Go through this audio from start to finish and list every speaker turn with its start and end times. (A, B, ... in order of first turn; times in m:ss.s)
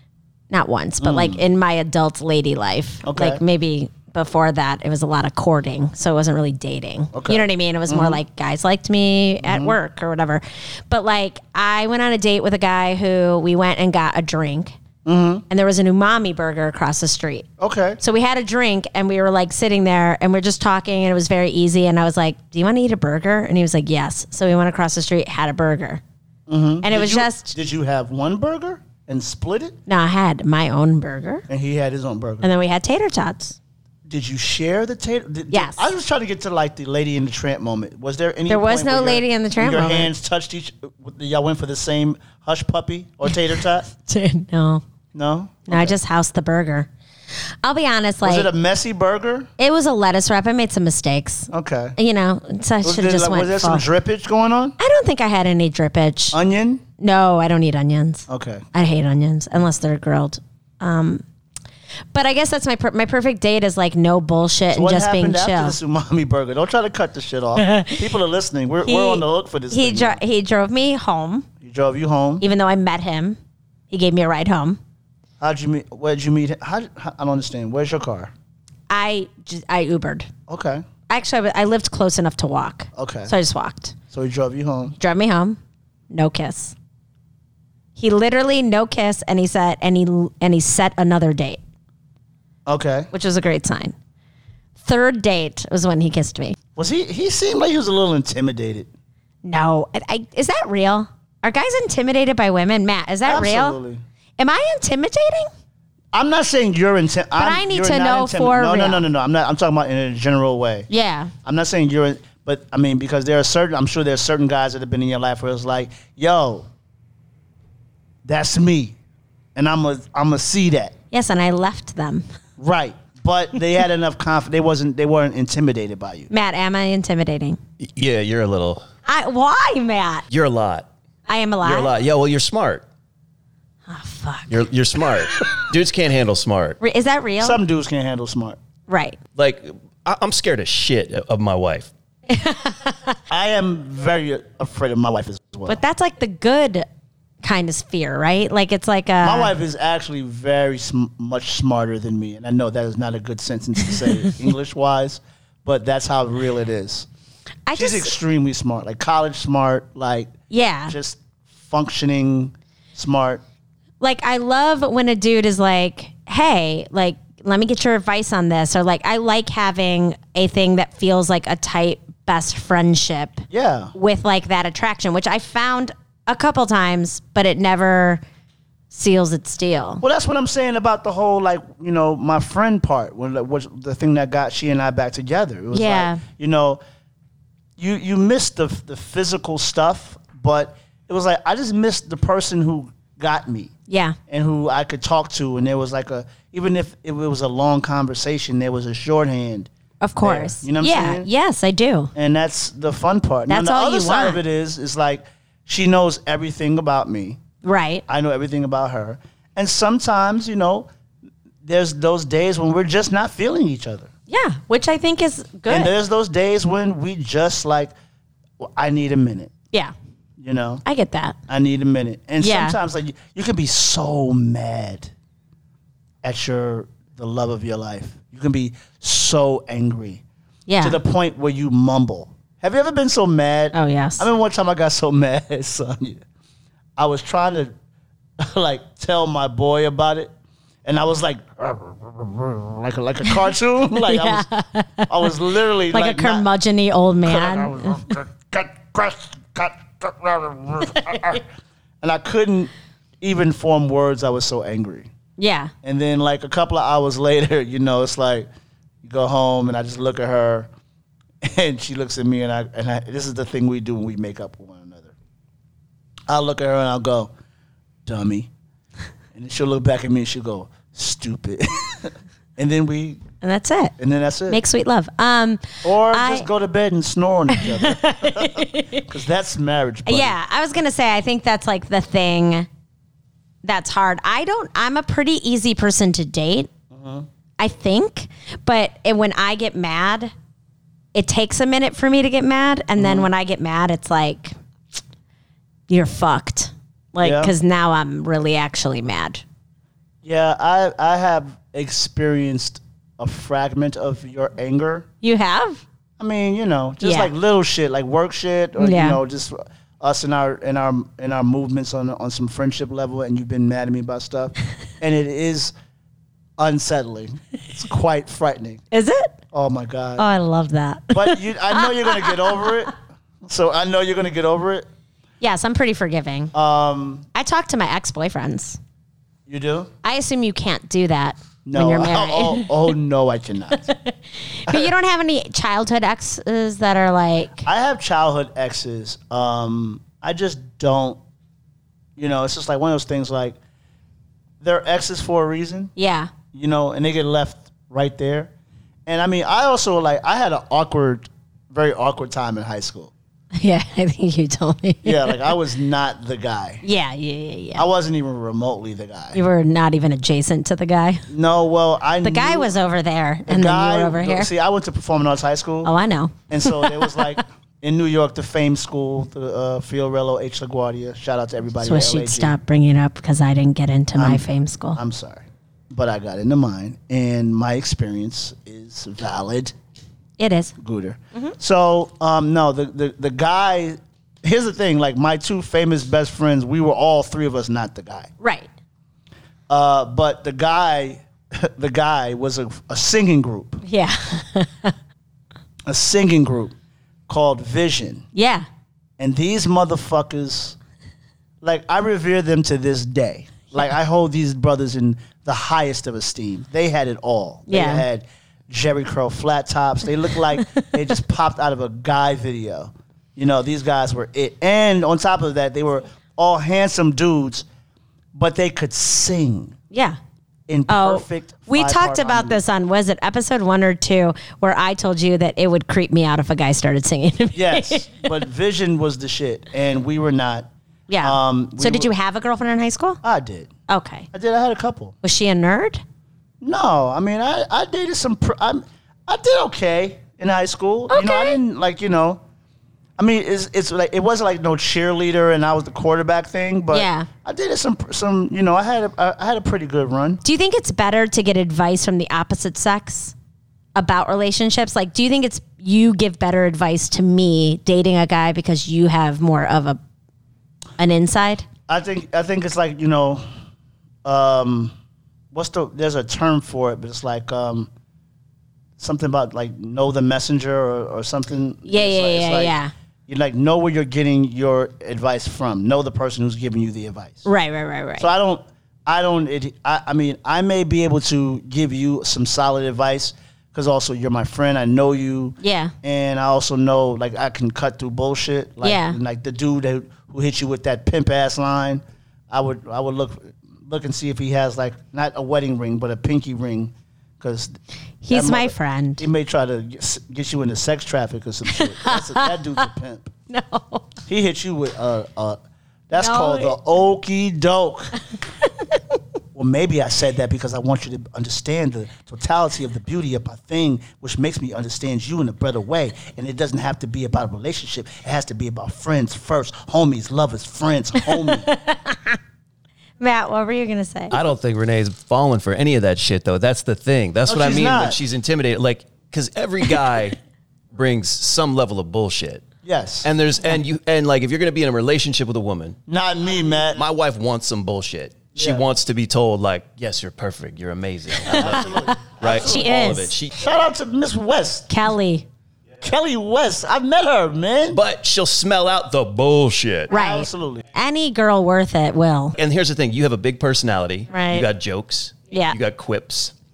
0:00.5-0:14.7 A
0:01.0-0:01.4 B
0:03.0-0:03.4 B
0:07.1-0:08.2 B
0:09.4-0:09.8 B
0:15.0-0:15.4 B
0:15.5-0:17.5 A
0:17.6-0:18.0 B
0:18.0-0:26.0 A
0:26.5-0:29.8 B
0:26.8-0:27.5 A
0:29.9-0:31.4 A
0:31.5-0:32.5 B
0:32.4-0:33.6 A
0:34.1-0:43.8 B
0:35.5-0:35.8 A
0:38.5-0:40.1 A
0:43.9-0:44.8 A
0:45.1-0:46.0 B
0:45.7-0:46.9 A
0:47.6-0:48.5 A
0:48.2-0:49.5 B
0:49.6-0:53.8 A
0:51.5-0:52.0 B
0:52.8-0:54.8 B
0:54.8-0:56.4 A
0:56.3-0:56.8 B
0:57.0-1:01.2 A
0:58.3-0:58.6 B
1:02.1-1:05.8 A
1:04.7-1:10.2 B
1:07.6-1:08.0 A
1:08.8-1:11.5 A
1:11.6-1:12.4 B
1:12.4-1:13.4 A
1:13.9-1:14.8 A
1:15.4-1:18.3 B
1:18.9-1:20.3 A
1:20.5-1:20.8 B
1:21.1-1:24.0 A
1:22.9-1:23.3 B
1:24.1-1:24.9 B
1:25.0-1:25.6 A
1:26.1-1:26.7 A
1:28.0-1:31.6 A
1:32.6-1:33.1 B
1:33.1-1:33.9 A
1:34.8-1:36.6 A
1:36.8-1:38.9 B
1:39.4-1:43.8 A
1:43.2-1:44.0 B
1:44.4-1:45.5 A
1:46.1-1:50.9 B
1:47.4-1:49.0 A
1:50.9-1:51.3 A
1:51.4-1:56.7 B
1:58.2-1:59.0 B
1:59.5-2:00.9 B
2:01.1-2:02.2 A
2:02.6-2:06.3 B
2:06.3-2:07.6 A
2:07.8-2:08.8 C
2:09.0-2:10.2 A
2:10.3-2:10.9 C
2:11.3-2:11.9 A
2:11.6-2:12.8 C
2:13.9-2:14.6 A
2:14.5-2:16.8 C
2:16.8-2:17.6 A
2:17.4-2:18.6 B
2:18.9-2:19.2 A
2:19.4-2:21.9 C
2:22.3-2:23.2 A
2:23.3-2:25.8 B
2:25.7-2:26.8 A
2:27.4-2:29.5 A
2:29.2-2:37.1 B
2:37.7-2:38.1 A
2:37.8-2:40.3 B
2:40.5-2:40.9 A
2:40.9-2:43.4 B
2:44.0-2:58.2 A
2:53.5-2:53.9 B
2:58.9-3:00.0 A
3:00.0-3:06.8 B
3:05.7-3:06.2 A
3:07.8-3:13.7 B
3:13.9-3:14.2 A
3:14.3-3:19.7 B
3:20.0-3:22.1 A
3:20.2-3:21.3 B
3:22.1-3:27.4 B
3:23.5-3:24.4 A
3:27.6-3:28.0 A
3:28.1-3:30.9 B
3:31.6-3:34.1 B
3:34.3-3:35.9 A
3:35.7-3:37.9 B
3:38.6-3:39.5 B
3:40.4-3:40.8 B
3:40.8-3:41.4 A
3:41.5-3:45.1 B
3:42.4-3:42.8 A
3:46.2-3:50.2 B
3:50.7-3:51.0 A
3:50.8-3:56.2 B
3:53.7-3:54.3 A
3:57.0-3:57.7 B
3:58.4-4:00.3 B
4:00.8-4:04.5 B
4:03.9-4:05.3 A
4:05.1-4:06.4 B
4:05.9-4:08.0 A
4:07.2-4:11.4 B
4:10.8-4:11.4 A
4:12.0-4:15.1 B
4:15.4-4:15.7 A
4:15.8-4:18.5 B
4:19.0-4:20.7 B
4:21.4-4:25.1 B
4:26.3-4:27.3 B
4:28.0-4:28.5 B
4:29.3-4:33.2 B
4:33.4-4:33.9 A
4:34.0-4:34.6 B
4:34.5-4:36.5 A
4:35.8-4:40.4 B
4:37.5-4:39.1 A
4:40.0-4:42.7 A
4:43.6-4:46.7 A
4:46.9-4:47.3 B
4:47.6-4:50.3 A
4:51.1-4:54.5 A
4:53.0-4:53.3 B
4:55.9-4:59.4 A
4:57.2-4:57.5 B
5:00.2-5:05.1 B
5:05.2-5:05.8 A
5:06.2-5:15.7 B
5:07.0-5:07.3 A
5:08.8-5:09.2 A
5:16.6-5:18.8 B
5:18.9-5:19.3 A
5:19.5-5:20.2 B
5:20.2-5:22.7 A
5:21.1-5:24.8 B
5:25.4-5:26.5 A
5:26.5-5:27.2 B
5:27.3-5:28.8 A
5:29.5-5:29.9 B
5:30.0-5:32.7 A
5:31.6-5:33.9 B
5:33.7-5:37.7 A
5:34.7-5:34.9 B
5:37.6-5:41.2 B
5:42.2-5:43.6 B
5:44.6-5:45.9 B
5:46.0-5:46.3 A
5:46.5-5:48.5 B
5:49.0-5:53.1 B
5:53.5-5:55.5 A
5:55.0-5:56.8 B
5:56.8-5:57.8 A
5:57.7-5:59.4 B
5:59.3-6:01.2 A
6:01.3-6:02.7 B
6:02.2-6:04.5 A
6:03.5-6:05.9 B
6:05.8-6:07.3 A
6:06.5-6:12.6 B
6:11.8-6:15.0 A
6:14.2-6:19.7 B
6:20.4-6:20.7 A
6:20.8-6:28.3 B
6:28.4-6:28.7 A
6:29.7-6:33.8 B
6:33.8-6:34.9 A
6:35.8-6:36.7 B
6:37.3-6:38.2 B
6:38.3-6:38.6 A
6:39.2-6:40.8 B
6:41.6-6:57.6 B
6:47.7-6:48.0 A
6:50.6-6:50.9 A
6:58.3-6:59.8 B
6:59.9-7:00.2 A
7:00.7-7:02.6 B
7:00.9-7:08.3 A
7:07.5-7:10.7 B
7:11.1-7:13.2 A
7:11.2-7:12.1 B
7:13.2-7:13.7 B
7:13.9-7:14.3 A
7:14.3-7:15.1 B
7:15.2-7:16.0 A
7:16.6-7:22.4 B
7:21.1-7:21.6 A
7:23.2-7:30.4 B
7:26.9-7:27.3 A
7:30.4-7:33.3 A
7:33.9-7:40.0 A
7:41.0-7:41.6 A
7:41.9-7:43.4 B
7:44.2-7:44.9 B
7:45.5-7:47.9 B
7:49.0-7:57.4 B
7:51.8-7:52.9 A
7:57.4-7:58.3 A
7:58.2-8:17.7 B
8:05.6-8:05.9 A
8:08.8-8:09.2 A
8:18.2-8:19.3 A
8:18.3-8:23.3 B
8:21.7-8:22.8 A
8:23.5-8:24.1 A
8:24.3-8:28.1 B
8:26.2-8:26.8 A
8:29.5-8:41.7 B
8:41.3-8:42.4 A
8:43.2-8:44.3 A
8:44.3-8:50.4 C
8:47.5-8:48.2 B
8:50.9-8:52.7 C
8:52.8-8:53.3 B
8:53.2-8:56.0 C
8:56.1-8:57.0 B
8:57.0-9:03.6 C
8:58.6-8:58.8 B
9:01.4-9:02.9 B
9:01.6-9:03.3 A
9:03.5-9:05.1 B
9:04.9-9:05.4 A
9:06.0-9:08.0 B
9:07.9-9:10.1 C
9:10.1-9:10.8 B
9:10.1-9:12.5 A
9:12.6-9:16.5 C
9:14.3-9:14.7 A
9:15.5-9:15.8 A